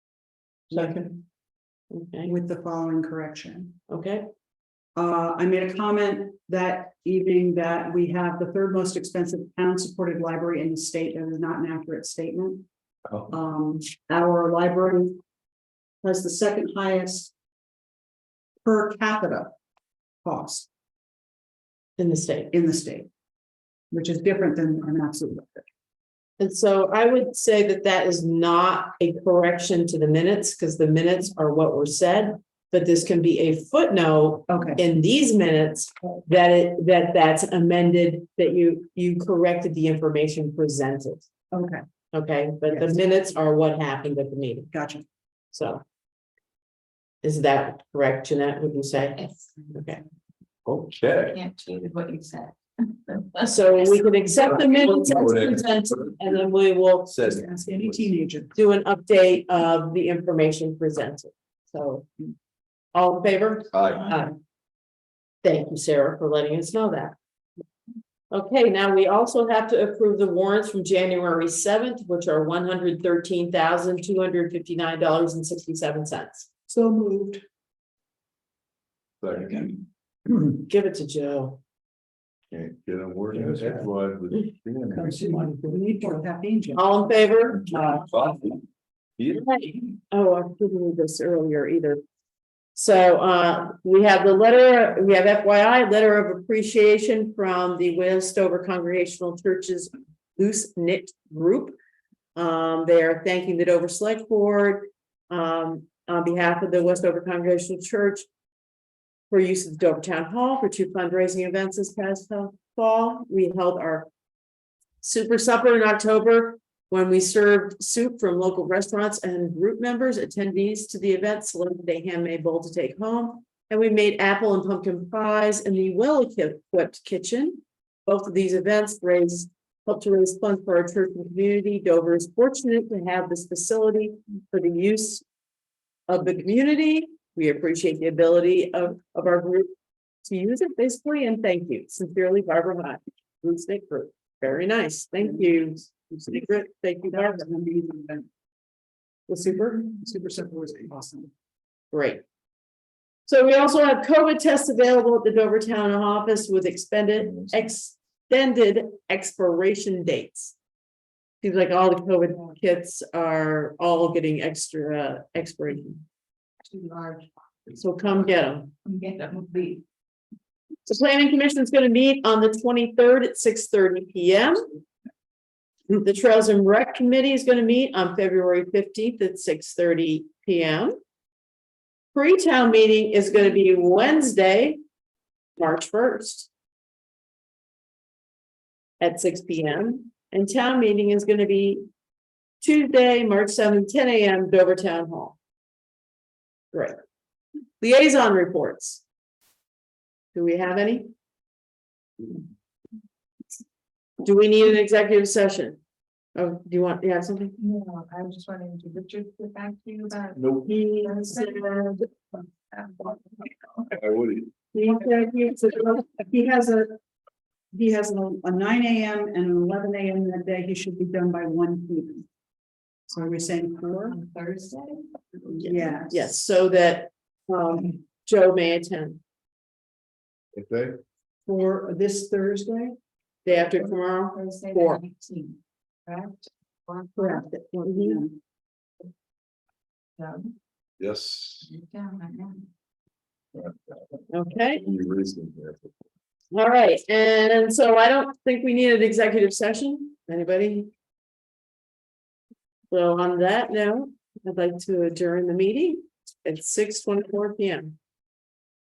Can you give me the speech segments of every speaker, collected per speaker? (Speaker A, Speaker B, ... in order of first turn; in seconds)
Speaker A: 0.7-1.1, 1.9-2.3, 3.9-4.3, 22.0-22.5, 26.4-41.3, 42.1-44.7, 45.5-45.8, 47.2-50.0, 53.4-57.2, 58.5-62.1, 62.9-64.3, 65.4-67.2, 68.3-76.5, 80.5-81.6, 86.7-88.0, 90.1-92.0, 92.8-101.8, 102.4-108.3, 109.3-114.1, 115.0-135.2, 136.1-139.7, 140.2-147.4, 149.3-149.9, 151.9-152.2, 153.3-160.5, 161.4-166.0, 167.8-168.7, 170.9-174.6, 176.0-180.9, 182.1-184.8, 185.6-186.5, 189.0-191.8, 192.6-195.4, 197.8-199.0, 200.3-201.1, 204.2-205.8, 206.4-207.6, 210.7-211.7, 225.6-229.2, 233.4-235.0, 237.8-238.2, 244.3-244.8, 246.5-250.9, 252.9-258.0
Speaker B: 0.7-1.2, 2.2-3.8, 5.0-12.7, 13.3-15.2, 16.0-17.3, 18.6-19.6, 20.2-20.7, 22.5-23.1, 23.9-25.7, 34.5-34.8, 41.5-41.9, 42.7-43.0, 44.7-45.0, 57.2-58.5, 76.7-77.4, 84.9-86.8, 87.7-88.0, 147.1-148.3, 149.7-151.3, 214.7-217.0, 217.7-222.3, 223.1-224.2, 225.6-226.2, 231.5-233.0, 237.2-238.4
Speaker C: 49.2-49.7, 51.3-53.7, 54.9-55.3, 166.7-167.3, 168.8-169.8, 207.6-213.9, 224.1-225.5, 234.3-237.5, 240.2-240.5, 241.6-242.7
Speaker D: 50.7-51.4, 54.6-56.2, 57.1-58.0, 63.7-64.2, 79.2-79.8, 82.5-85.6, 87.9-88.6, 89.2-89.8, 157.2-157.6, 210.3-210.7, 213.9-214.5, 230.5-231.0, 241.0-241.7, 243.5-244.2, 244.7-245.9